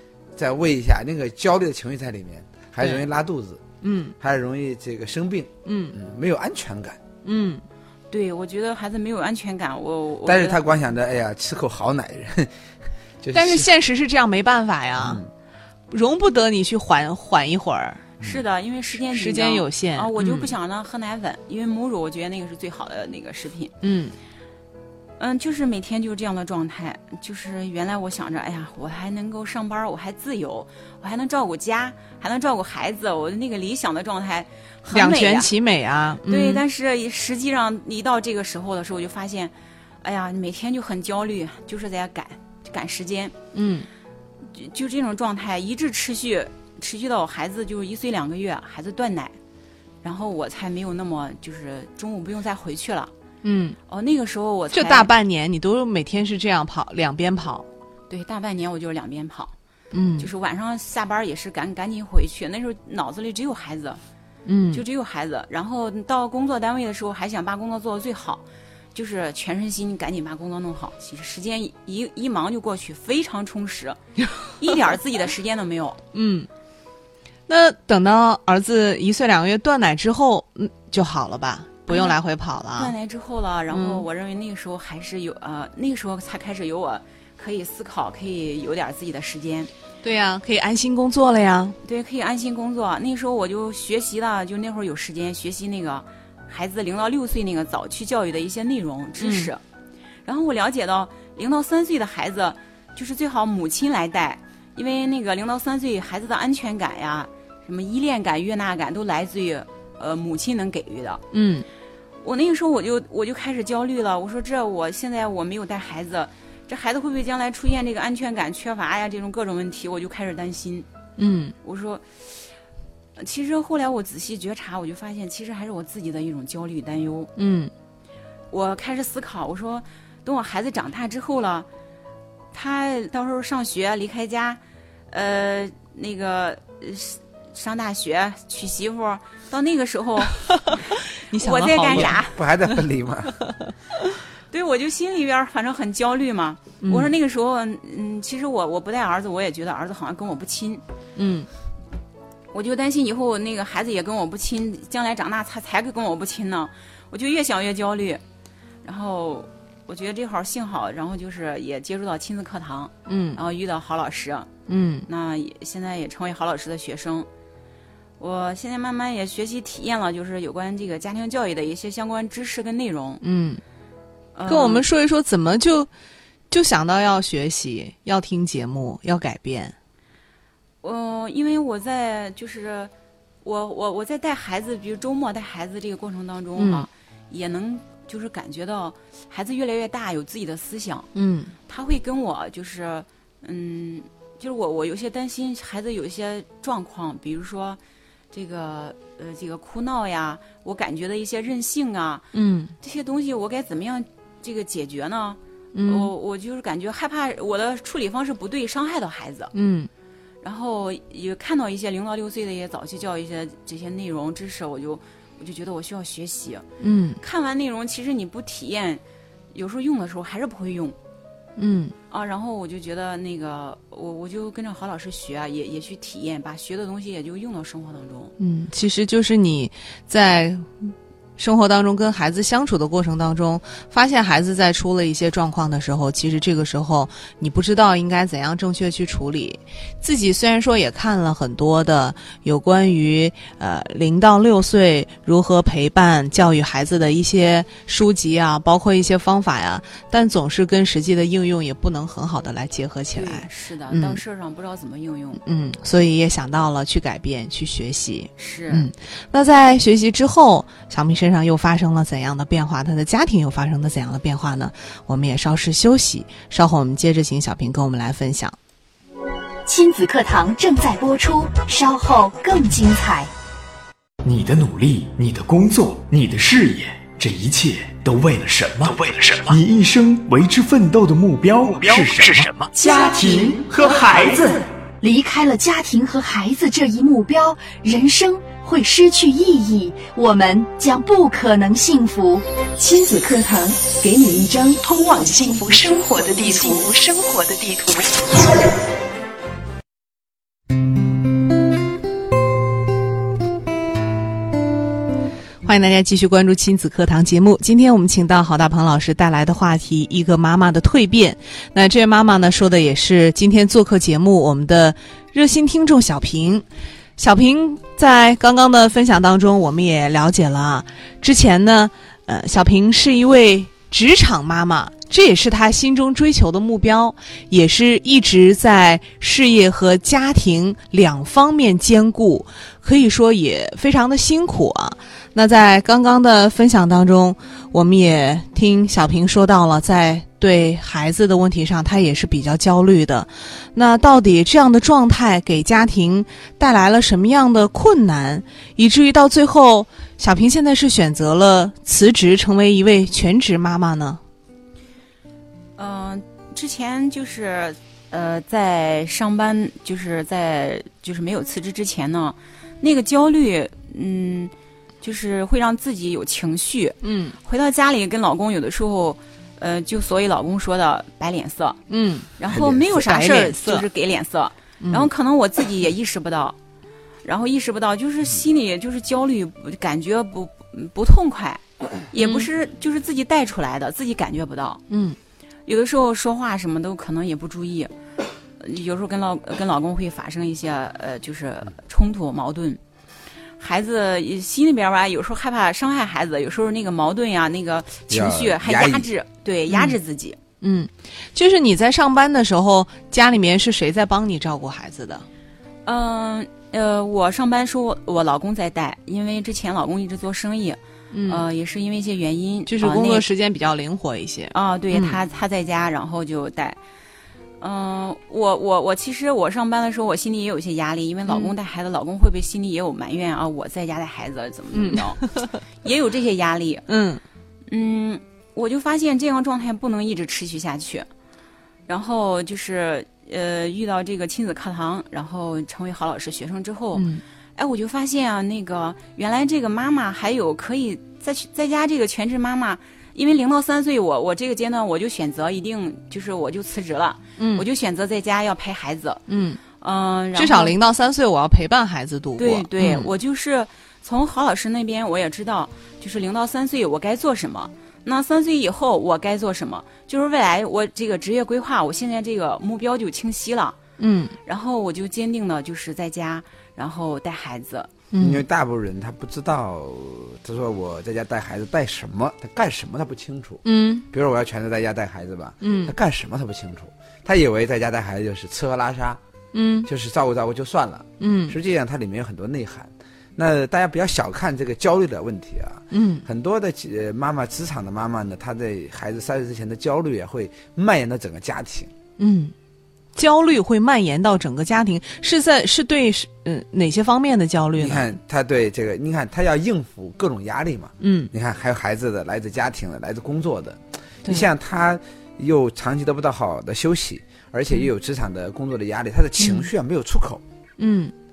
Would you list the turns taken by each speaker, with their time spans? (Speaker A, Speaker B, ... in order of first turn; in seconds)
Speaker A: 0.3-3.6, 4.2-7.0, 10.2-12.5, 13.2-13.7, 15.0-15.3, 142.1-143.3, 372.5-372.9, 398.1-399.1, 468.2-479.2, 479.9-491.9, 497.8-510.4
Speaker B: 3.8-4.1, 5.6-6.0, 7.2-7.6, 13.3-15.2, 15.9-18.0, 19.1-20.5, 23.8-24.1, 34.9-36.6, 43.5-43.9, 53.4-53.8, 54.7-57.6, 59.9-60.3, 64.5-64.8, 76.1-76.5, 77.5-82.9, 83.7-84.0, 90.0-91.8, 99.2-99.5, 111.3-111.6, 121.2-121.5, 127.3-127.7, 140.4-142.2, 146.8-147.1, 151.2-151.5, 163.1-163.4, 164.7-165.1, 173.2-173.6, 174.5-175.9, 176.5-179.7, 186.6-186.9, 191.1-191.5, 202.3-202.7, 205.7-206.1, 209.5-209.9, 216.8-217.2, 221.6-221.9, 228.4-254.2, 255.4-268.6, 305.6-316.6, 317.2-354.2, 367.0-367.4, 371.9-372.3, 372.9-373.9, 374.8-375.1, 382.2-382.5, 384.9-385.2, 399.7-400.0, 400.6-405.2, 411.1-411.4, 412.7-415.2, 421.3-421.5, 424.7-425.6, 426.9-427.2, 436.9-437.2, 447.4-447.6, 449.3-449.6, 450.3-453.1, 464.0-464.4, 468.1-468.4, 473.6-474.1, 475.6-475.9, 479.5-479.9, 481.2-481.6, 485.9-486.2, 492.2-492.5, 493.1-498.1, 501.0-501.3, 509.4-509.7, 510.8-511.1
Speaker C: 8.1-10.6, 18.2-23.7, 25.2-35.5, 36.2-43.3, 44.5-49.3, 50.0-53.1, 53.9-55.1, 58.1-59.5, 60.2-64.0, 64.7-74.0, 74.5-76.0, 81.9-82.2, 82.8-89.7, 91.8-99.6, 100.2-111.2, 112.2-120.9, 121.6-122.0, 123.2-127.3, 128.5-131.7, 132.5-142.4, 144.5-150.8, 152.5-158.2, 158.8-164.5, 165.1-167.3, 168.2-173.2, 174.3-174.8, 180.8-182.9, 183.4-191.1, 191.7-197.8, 198.3-202.3, 202.8-209.5, 210.4-216.7, 217.2-219.0, 219.5-220.9, 222.1-228.3, 253.1-255.4, 258.4-258.9, 355.8-371.8, 372.4-376.6, 377.2-384.8, 385.6-387.9, 388.6-392.8, 393.6-400.4, 405.9-413.3, 414.5-416.8, 417.6-426.9, 427.7-431.1, 431.9-449.2, 449.8-450.8, 452.4-463.8, 464.4-467.9
Speaker D: 269.6-273.3, 282.7-283.8, 285.0-298.3
Speaker E: 274.2-284.6